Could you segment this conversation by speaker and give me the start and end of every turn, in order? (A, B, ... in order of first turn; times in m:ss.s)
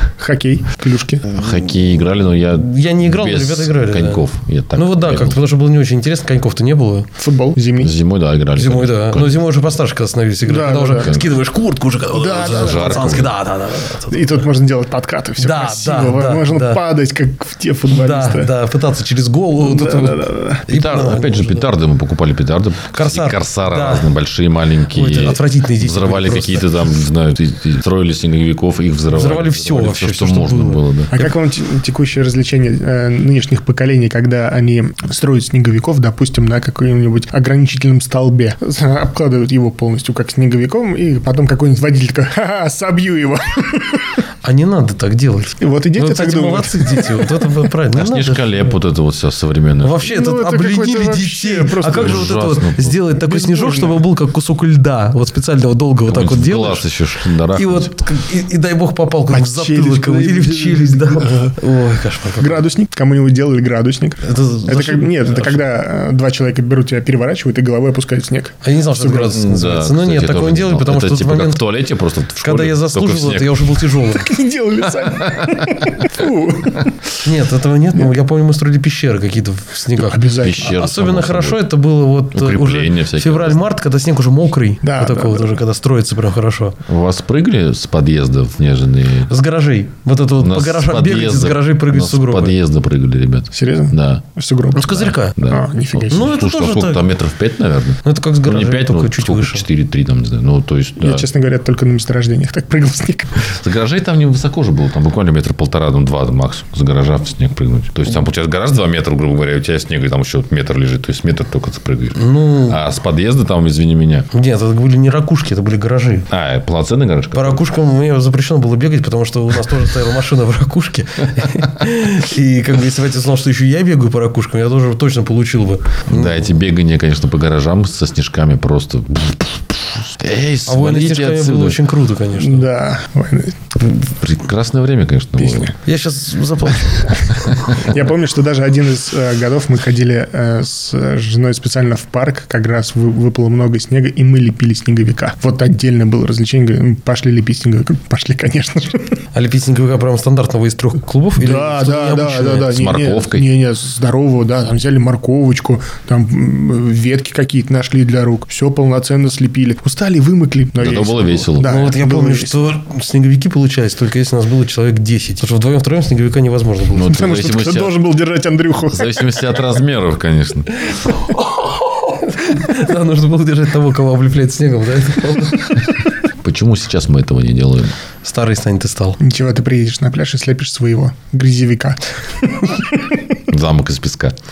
0:00.2-0:01.2 A
0:01.3-0:05.4 B
0:02.5-0:07.1 C
0:07.2-0:07.9 A
0:07.8-0:09.4 B
0:08.6-0:14.4 C
0:10.5-0:11.1 A
0:12.1-0:13.2 A
0:12.4-0:13.3 B
0:14.1-0:18.5 A
0:15.4-0:16.8 C
0:17.9-0:21.6 C
0:19.6-0:20.6 A
0:20.7-0:31.1 B
0:22.9-0:24.1 C
0:24.9-0:26.7 C
0:29.1-0:31.3 C
0:31.1-0:44.2 A
0:44.4-0:48.5 C
0:45.6-0:47.6 A
0:47.9-0:50.1 B
0:49.8-0:56.9 C
0:50.0-0:52.4 A
0:51.9-0:53.0 B
0:53.2-0:54.0 A
0:56.1-0:57.9 B
0:57.5-1:02.6 C
0:59.3-1:01.6 A
1:02.4-1:09.4 A
1:04.2-1:05.6 C
1:08.6-1:11.6 C
1:09.1-1:13.9 B
1:12.4-1:14.3 C
1:14.1-1:17.0 A
1:15.1-1:16.0 B
1:17.2-1:26.8 C
1:19.9-1:20.7 A
1:20.4-1:21.7 B
1:22.3-1:23.6 B
1:24.8-1:25.6 A
1:26.9-1:29.3 B
1:29.3-1:32.6 C
1:30.4-1:34.2 B
1:33.5-1:36.3 A
1:34.8-1:35.4 C
1:34.8-1:41.2 B
1:36.1-1:37.0 C
1:38.0-1:39.6 C
1:41.0-1:43.5 A
1:43.5-1:54.3 B
1:52.2-1:52.8 C
1:54.3-1:56.3 C
1:56.3-1:57.6 B
1:57.3-2:06.5 C
2:06.1-2:11.9 B
2:10.7-2:12.7 C
2:12.4-2:13.7 A
2:13.8-2:15.8 B
2:15.4-2:15.7 A
2:15.8-2:17.5 C
2:17.7-2:29.2 A
2:29.3-2:32.7 C
2:31.4-2:42.6 A
2:32.7-2:33.5 B
2:40.8-2:41.7 B
2:41.6-2:47.3 C
2:46.9-2:48.1 B
2:47.0-2:49.4 A
2:48.9-2:51.1 B
2:51.2-2:55.8 C
2:56.4-2:58.0 B
2:58.2-2:59.2 C
2:59.2-3:03.2 A
3:03.5-3:04.3 B